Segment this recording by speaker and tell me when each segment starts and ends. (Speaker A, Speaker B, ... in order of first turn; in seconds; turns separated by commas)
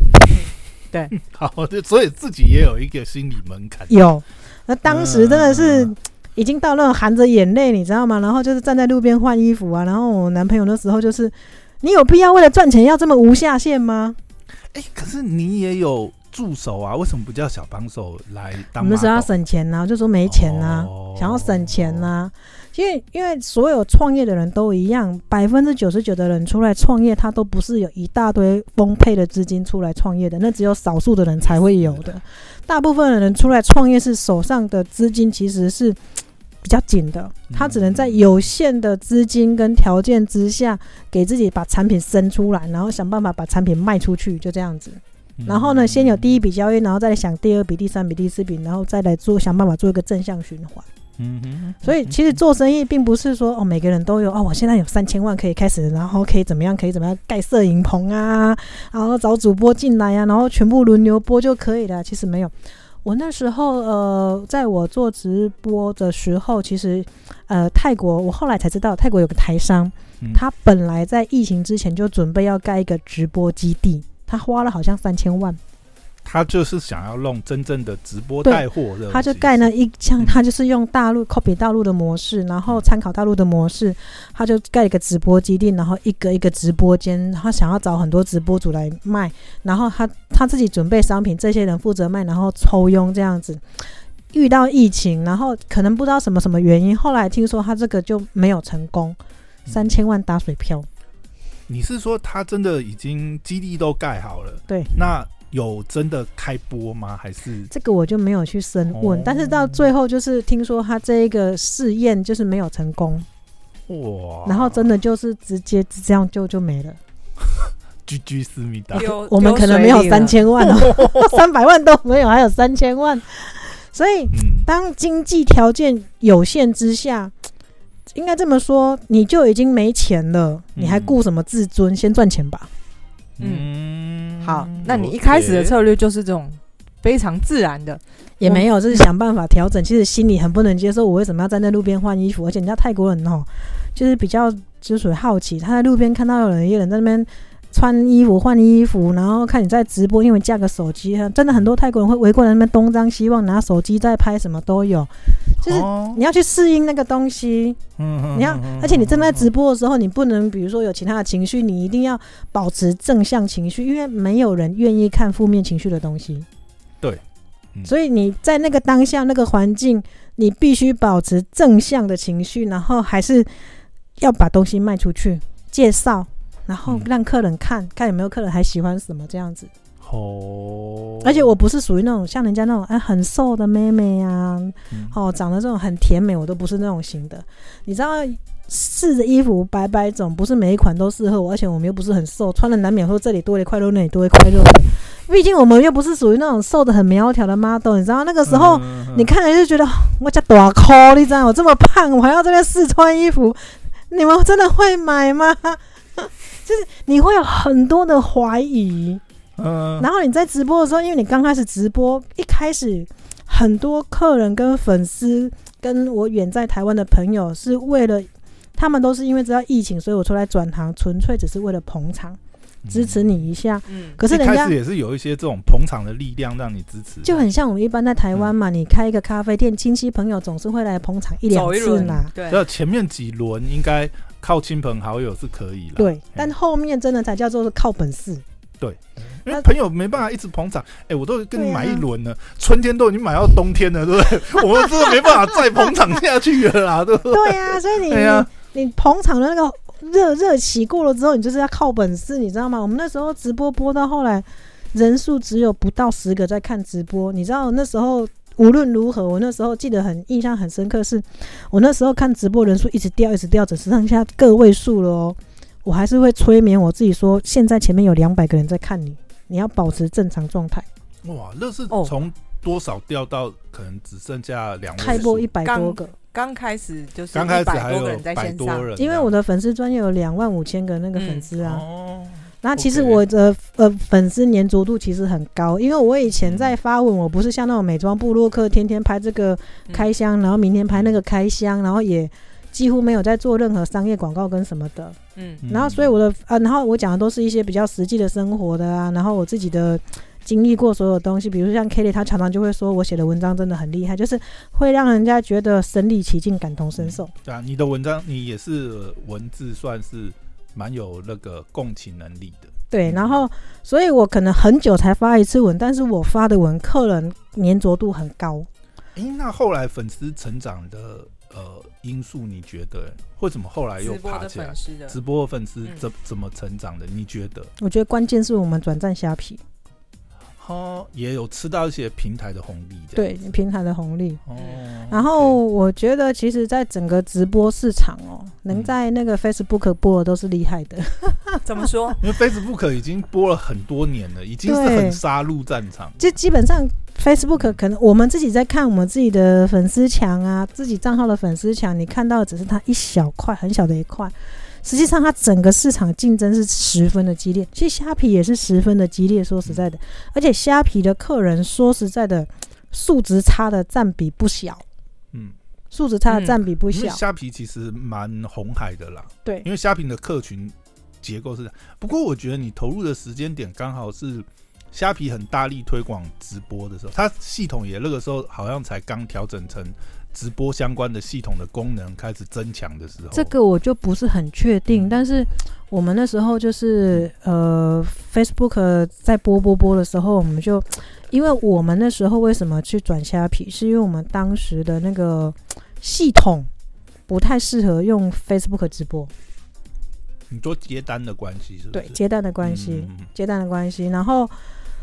Speaker A: 0.1-1.1, Speaker B: 1.1-4.0, Speaker C: 3.9-14.2, Speaker B: 4.9-5.9, Speaker B: 14.7-19.3, Speaker C: 18.7-36.0, Speaker B: 20.3-22.1, Speaker B: 31.4-32.2, Speaker C: 36.6-50.9, Speaker B: 37.5-38.3, Speaker B: 45.4-46.3, Speaker B: 51.2-52.2, Speaker C: 51.8-62.5, Speaker C: 63.0-75.6, Speaker B: 76.2-80.3, Speaker C: 78.4-99.2, Speaker B: 99.7-99.9, Speaker C: 99.7-100.9, Speaker B: 101.7-107.7, Speaker C: 107.7-113.3, Speaker B: 108.9-109.9, Speaker B: 113.9-114.9, Speaker C: 114.5-117.0, Speaker B: 118.1-119.1, Speaker C: 118.9-127.3, Speaker A: 119.0-120.4, Speaker B: 120.6-121.3, Speaker B: 124.3-124.7, Speaker C: 128.1-132.7, Speaker B: 130.8-131.2, Speaker B: 133.4-135.8, Speaker A: 133.4-133.7, Speaker A: 134.4-138.6, Speaker C: 138.4-157.8, Speaker B: 155.6-156.2, Speaker B: 158.0-159.5, Speaker C: 158.3-166.5, Speaker C: 167.8-173.5, Speaker C: 174.2-179.7, Speaker B: 180.0-181.5, Speaker C: 181.2-209.2, Speaker B: 198.5-199.3, Speaker B: 209.6-210.1, Speaker C: 210.0-222.4, Speaker B: 222.8-223.3, Speaker C: 222.9-224.8, Speaker A: 223.9-224.2, Speaker B: 224.2-227.5, Speaker C: 227.2-232.3, Speaker A: 231.5-232.6, Speaker B: 231.9-236.5, Speaker C: 236.0-238.4, Speaker B: 238.8-248.5, Speaker C: 241.6-242.0, Speaker C: 247.3-270.9, Speaker B: 271.2-275.5, Speaker C: 275.0-276.1, Speaker A: 275.6-278.9, Speaker B: 277.3-279.3, Speaker C: 279.0-281.8, Speaker A: 281.2-281.4, Speaker B: 281.6-283.2, Speaker C: 282.6-307.3, Speaker B: 286.4-286.8, Speaker A: 295.4-295.6, Speaker B: 295.6-296.2, Speaker B: 307.0-313.4, Speaker C: 312.9-318.7, Speaker B: 319.2-327.7, Speaker A: 324.0-325.2, Speaker C: 327.8-329.6, Speaker B: 330.6-333.4, Speaker C: 333.1-334.4, Speaker B: 334.5-335.6, Speaker A: 334.6-334.8, Speaker C: 335.1-341.6, Speaker A: 341.6-342.2, Speaker B: 342.2-346.2, Speaker C: 344.6-345.2, Speaker C: 346.2-364.8, Speaker C: 365.9-367.2, Speaker A: 366.3-366.6, Speaker B: 366.9-383.5, Speaker C: 383.3-396.7, Speaker B: 384.9-385.2, Speaker C: 397.3-399.3, Speaker B: 400.5-403.3, Speaker C: 401.9-404.5